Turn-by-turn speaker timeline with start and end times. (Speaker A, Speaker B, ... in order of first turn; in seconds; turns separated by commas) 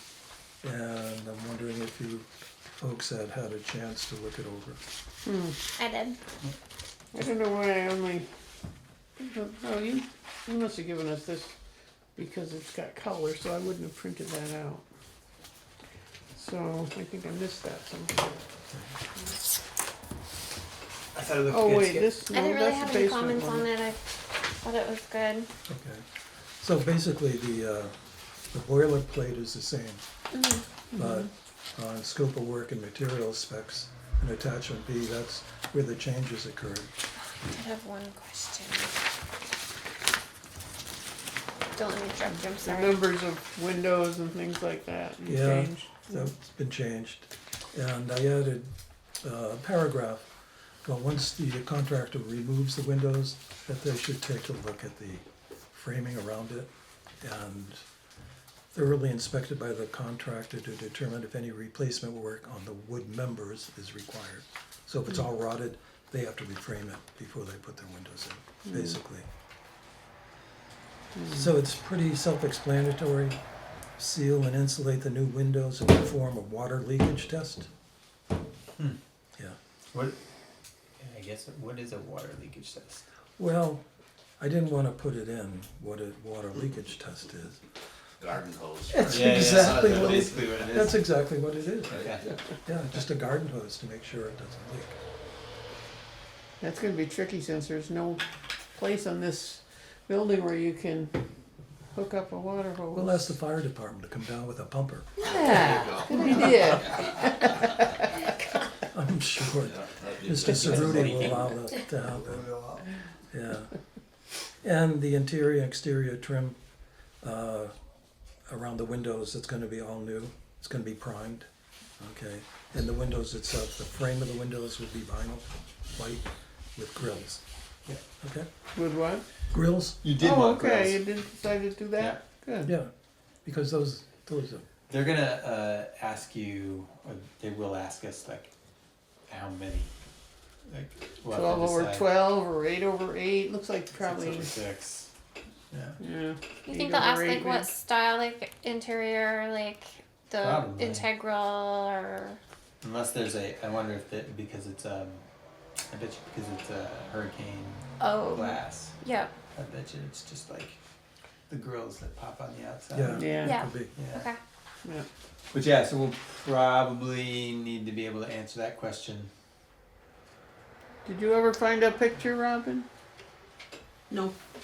Speaker A: 0.6-4.8, Speaker B: 5.2-5.6, Speaker C: 5.8-6.2, Speaker B: 7.1-8.3, Speaker B: 9.2-11.5, Speaker B: 12.2-14.8, Speaker B: 16.3-18.4, Speaker D: 21.1-22.2, Speaker B: 21.5-23.7, Speaker C: 22.3-24.0, Speaker C: 24.6-25.5, Speaker A: 25.7-26.0, Speaker A: 26.6-27.9, Speaker A: 28.5-30.0, Speaker C: 30.3-30.6, Speaker A: 30.9-36.9, Speaker C: 37.3-38.9, Speaker C: 41.8-42.9, Speaker B: 42.6-46.3, Speaker A: 45.2-48.7, Speaker A: 49.2-50.3, Speaker A: 50.8-56.7, Speaker A: 57.2-57.8, Speaker A: 58.7-69.3, Speaker B: 71.1-71.4, Speaker A: 71.2-73.4, Speaker A: 74.0-77.7, Speaker D: 79.9-80.2, Speaker D: 81.0-83.0, Speaker A: 83.4-83.8, Speaker A: 84.4-87.6, Speaker E: 88.2-90.8, Speaker A: 88.9-92.1, Speaker D: 89.0-91.0, Speaker E: 91.8-92.4, Speaker D: 92.0-92.3, Speaker A: 92.6-95.0, Speaker B: 96.6-98.2, Speaker B: 98.7-101.1, Speaker B: 101.9-103.3, Speaker A: 102.9-105.1, Speaker E: 105.2-107.2, Speaker B: 105.2-107.9, Speaker D: 105.6-105.9, Speaker A: 108.9-112.5, Speaker E: 109.5-111.5, Speaker D: 110.4-111.5, Speaker E: 112.1-112.8, Speaker A: 113.3-113.7, Speaker A: 114.6-116.6, Speaker A: 117.2-117.7, Speaker A: 118.5-121.5, Speaker A: 122.0-128.5, Speaker B: 128.7-129.2, Speaker A: 129.5-130.0, Speaker D: 130.0-131.0, Speaker B: 130.2-132.7, Speaker D: 132.0-132.2, Speaker A: 132.6-132.9, Speaker A: 133.4-134.7, Speaker D: 134.9-138.5, Speaker D: 139.3-139.9, Speaker D: 140.7-142.1, Speaker B: 141.3-144.6, Speaker D: 143.9-145.1, Speaker D: 145.7-146.0, Speaker B: 146.0-147.7, Speaker C: 146.7-152.4, Speaker D: 150.4-151.1, Speaker D: 152.8-155.2, Speaker D: 155.9-158.9, Speaker C: 158.0-159.3, Speaker D: 159.5-160.8, Speaker D: 161.5-164.3, Speaker A: 162.9-163.9, Speaker B: 163.1-163.6, Speaker C: 163.4-164.4, Speaker D: 165.5-169.3, Speaker B: 171.0-172.9